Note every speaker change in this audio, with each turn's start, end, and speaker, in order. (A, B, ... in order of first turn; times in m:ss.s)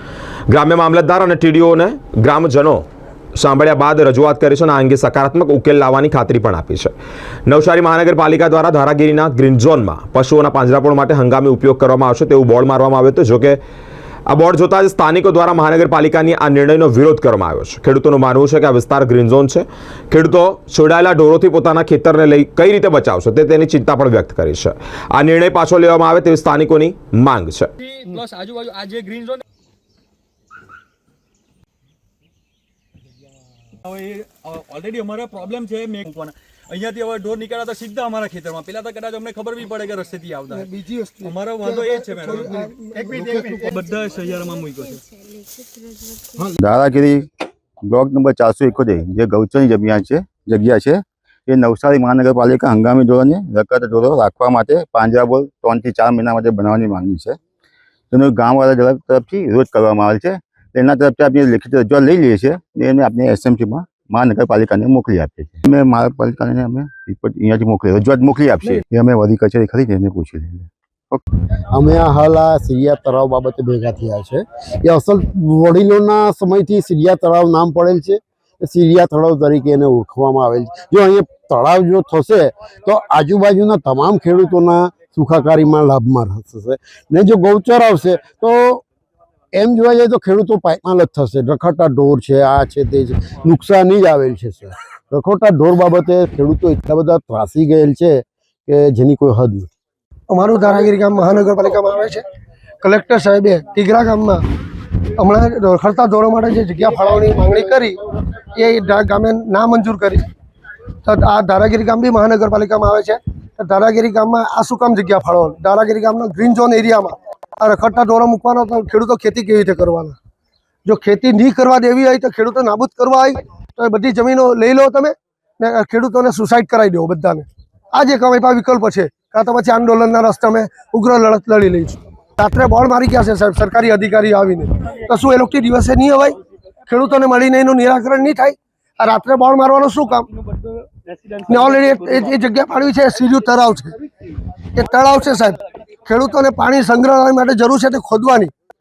0:00.5-0:06.9 A
0:07.5-0:13.6 A
0:14.3-0:27.7 A
0:27.8-0:29.4 B
0:33.8-0:40.7 B
0:40.5-0:43.8 C
0:41.2-0:45.1 B
0:46.6-0:47.2 D
0:47.9-0:57.4 D
0:58.1-1:11.2 D
1:11.6-1:28.8 E
1:29.6-1:39.7 E
1:40.3-1:42.2 C
1:42.8-1:44.4 C
1:45.2-1:50.3 C
1:51.0-2:00.2 C
2:00.9-2:20.3 C
2:21.3-2:24.1 C
2:24.7-2:28.5 C